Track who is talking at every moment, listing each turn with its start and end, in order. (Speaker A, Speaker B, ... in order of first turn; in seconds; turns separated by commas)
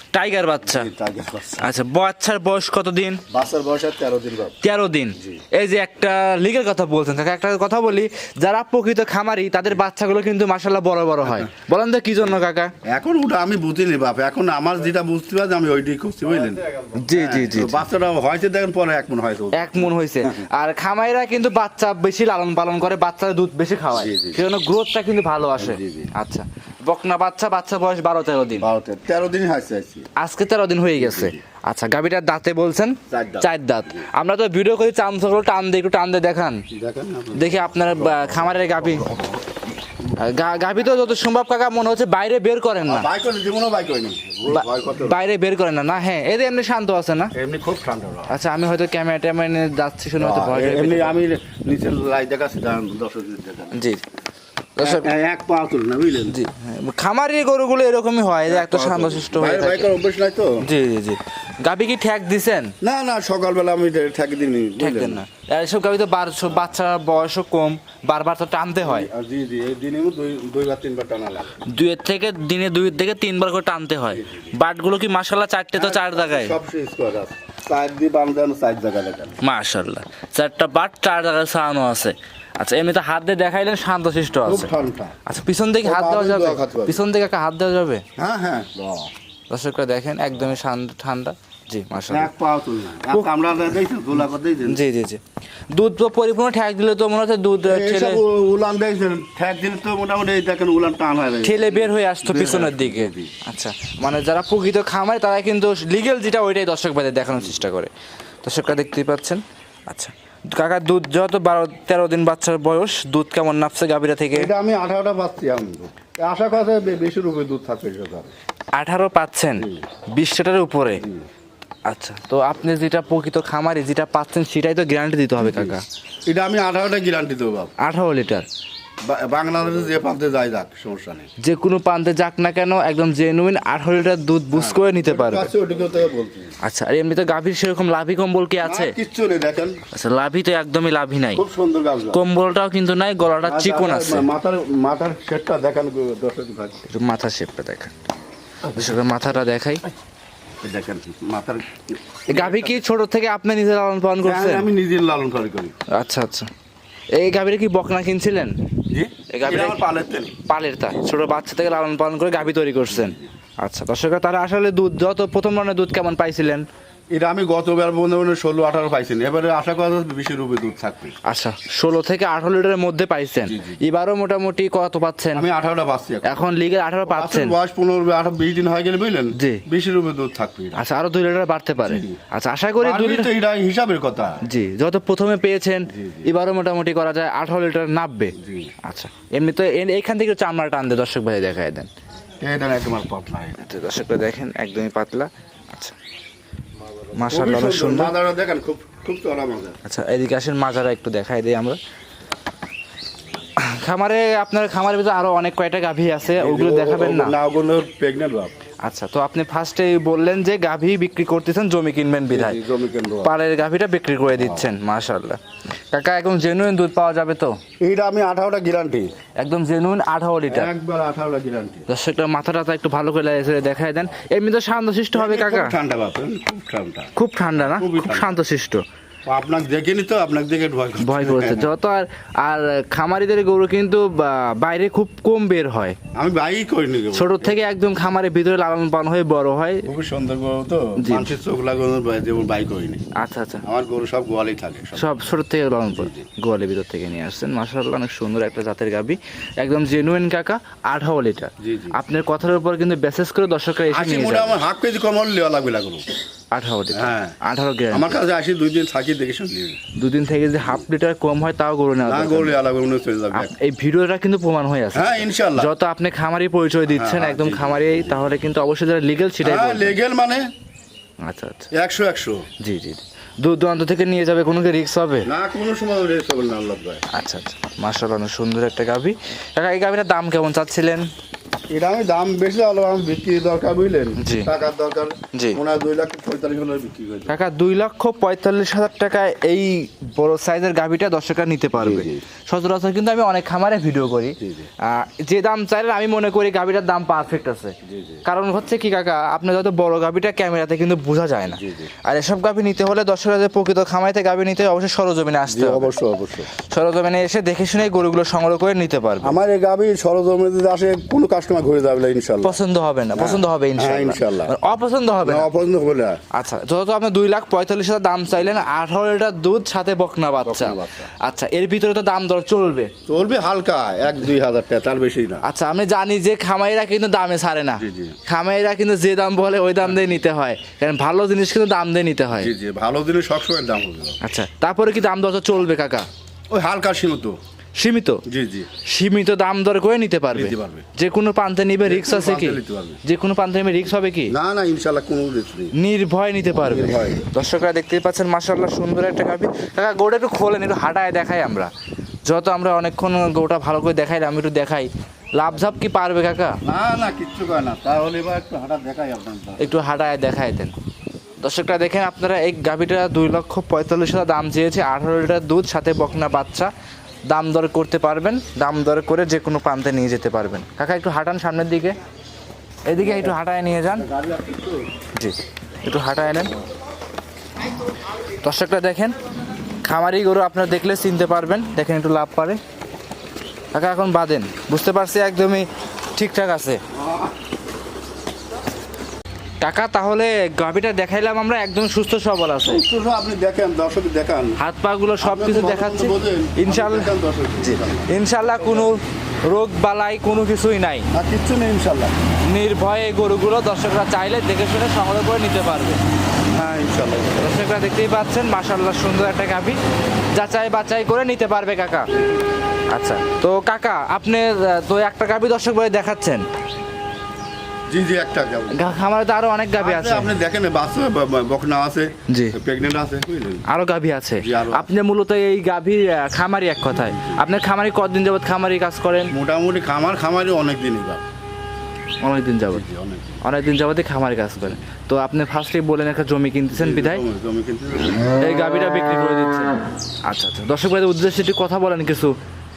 Speaker A: 0.1-0.9, Speaker B: 0.7-1.7, Speaker A: 1.6-3.2, Speaker B: 3.3-4.5, Speaker A: 4.6-12.7, Speaker B: 12.8-20.5, Speaker A: 17.0-17.8, Speaker A: 19.5-28.7, Speaker B: 23.9-24.4, Speaker B: 25.6-26.1, Speaker B: 28.6-30.1, Speaker A: 30.2-36.6, Speaker B: 31.0-31.4, Speaker B: 33.1-34.0, Speaker B: 36.7-39.5, Speaker A: 37.3-39.1, Speaker A: 40.2-43.1, Speaker B: 42.8-45.2, Speaker A: 44.5-47.3, Speaker B: 47.3-48.3, Speaker A: 48.3-51.1, Speaker B: 50.2-53.9, Speaker A: 53.7-54.0, Speaker A: 54.8-55.1, Speaker B: 54.8-56.4, Speaker A: 56.3-59.9, Speaker B: 58.5-60.7, Speaker A: 60.6-62.7, Speaker B: 62.8-65.2, Speaker A: 64.8-69.1, Speaker B: 68.8-71.6, Speaker A: 71.7-76.6, Speaker B: 74.1-74.5, Speaker B: 75.8-79.4, Speaker A: 79.4-84.7, Speaker B: 84.4-85.2, Speaker A: 85.3-88.0, Speaker B: 85.8-87.0, Speaker B: 88.2-89.1, Speaker A: 89.5-92.3, Speaker B: 92.1-94.8, Speaker A: 94.7-95.2, Speaker A: 95.7-98.2, Speaker B: 97.7-103.3, Speaker A: 101.4-107.9, Speaker A: 108.4-114.5, Speaker B: 114.3-118.3, Speaker A: 118.8-121.0, Speaker B: 121.0-121.3, Speaker A: 121.9-125.8, Speaker B: 125.4-127.7, Speaker A: 127.8-128.5, Speaker B: 129.0-131.3, Speaker A: 131.4-135.5, Speaker B: 134.5-136.6, Speaker A: 136.6-138.9, Speaker B: 138.6-139.8, Speaker A: 139.9-141.4, Speaker B: 141.3-142.2, Speaker A: 142.1-144.3, Speaker B: 143.4-146.8, Speaker A: 146.9-147.9, Speaker B: 148.7-149.0, Speaker A: 148.7-149.8, Speaker B: 150.6-152.8, Speaker A: 152.3-154.7, Speaker B: 154.2-155.8, Speaker A: 155.9-156.5, Speaker A: 157.2-158.5, Speaker B: 158.9-160.4, Speaker A: 159.3-159.8, Speaker A: 160.4-166.7, Speaker B: 162.9-163.3, Speaker B: 167.1-171.2, Speaker A: 171.2-175.5, Speaker B: 173.4-173.8, Speaker B: 175.3-176.5, Speaker A: 176.2-177.6, Speaker B: 177.1-180.8, Speaker A: 179.3-179.6, Speaker A: 180.8-183.3, Speaker B: 181.8-182.2, Speaker B: 182.8-184.4, Speaker A: 184.4-191.9, Speaker B: 185.9-186.3, Speaker B: 188.4-188.7, Speaker B: 192.4-193.6, Speaker A: 193.6-196.0, Speaker A: 197.2-198.1, Speaker B: 197.2-199.8, Speaker A: 199.8-201.8, Speaker A: 203.6-207.4, Speaker B: 206.4-208.5, Speaker A: 208.8-212.6, Speaker B: 212.3-213.3, Speaker A: 213.2-215.4, Speaker B: 214.3-214.7, Speaker A: 215.9-217.6, Speaker B: 217.8-219.1, Speaker A: 219.4-220.7, Speaker B: 220.5-221.9, Speaker A: 221.9-225.8, Speaker B: 225.1-228.3, Speaker A: 227.2-228.8, Speaker B: 229.3-231.7, Speaker A: 231.0-236.0, Speaker B: 236.2-237.6, Speaker A: 237.2-239.9, Speaker B: 239.9-243.0, Speaker A: 241.0-241.3, Speaker A: 243.2-243.7, Speaker B: 243.6-245.2, Speaker A: 244.9-254.6, Speaker B: 245.9-246.3, Speaker B: 251.6-252.0, Speaker B: 253.9-256.0, Speaker A: 256.5-258.2, Speaker B: 256.9-257.4, Speaker B: 257.9-259.8, Speaker A: 260.0-262.6, Speaker B: 262.1-263.6, Speaker A: 263.3-270.0, Speaker B: 264.9-265.7, Speaker B: 266.9-268.3, Speaker B: 269.4-270.4, Speaker A: 271.2-271.7, Speaker B: 271.7-272.5, Speaker A: 272.6-275.3, Speaker B: 275.2-277.0, Speaker A: 277.1-281.1, Speaker B: 281.7-287.4, Speaker A: 284.2-284.5, Speaker A: 285.3-285.6, Speaker A: 287.3-305.9, Speaker B: 291.8-292.2, Speaker B: 294.4-294.7, Speaker B: 297.8-298.2, Speaker B: 301.5-301.9, Speaker B: 305.5-306.5, Speaker A: 306.6-309.4, Speaker B: 309.2-312.6, Speaker A: 312.4-315.5, Speaker B: 313.1-314.6, Speaker B: 315.2-316.2, Speaker A: 316.3-322.9, Speaker B: 320.4-321.1, Speaker B: 323.1-325.4, Speaker A: 325.4-332.5, Speaker B: 327.8-328.2, Speaker B: 332.3-334.2, Speaker A: 334.2-336.1, Speaker B: 336.5-337.4, Speaker A: 337.8-338.2, Speaker B: 338.3-338.7, Speaker A: 338.9-344.3, Speaker B: 340.3-340.9, Speaker B: 341.9-343.0, Speaker B: 344.3-345.7, Speaker A: 345.8-351.7, Speaker B: 346.5-347.2, Speaker A: 352.3-356.6, Speaker B: 356.6-359.9, Speaker A: 359.6-360.7, Speaker A: 361.4-366.7, Speaker A: 367.3-371.9, Speaker A: 372.9-374.1, Speaker B: 372.9-373.4, Speaker B: 373.9-374.9, Speaker A: 375.1-376.5, Speaker A: 378.4-379.1, Speaker A: 379.8-382.6, Speaker A: 383.7-386.8, Speaker B: 386.9-387.4, Speaker A: 389.6-392.8, Speaker B: 392.6-394.6, Speaker A: 394.6-401.1, Speaker B: 395.2-399.0, Speaker B: 401.1-402.2, Speaker A: 402.5-406.0, Speaker B: 406.5-407.5, Speaker A: 407.4-409.8, Speaker A: 410.3-412.1, Speaker A: 412.9-416.4, Speaker B: 417.9-418.9, Speaker A: 418.7-420.3, Speaker B: 419.8-423.7, Speaker A: 422.3-422.6, Speaker A: 423.7-429.3, Speaker B: 424.4-424.9, Speaker B: 426.9-427.4, Speaker B: 429.3-431.2, Speaker A: 432.2-432.8, Speaker B: 432.7-433.4, Speaker A: 433.4-437.2, Speaker B: 436.7-438.3, Speaker A: 438.4-439.8, Speaker A: 440.3-442.4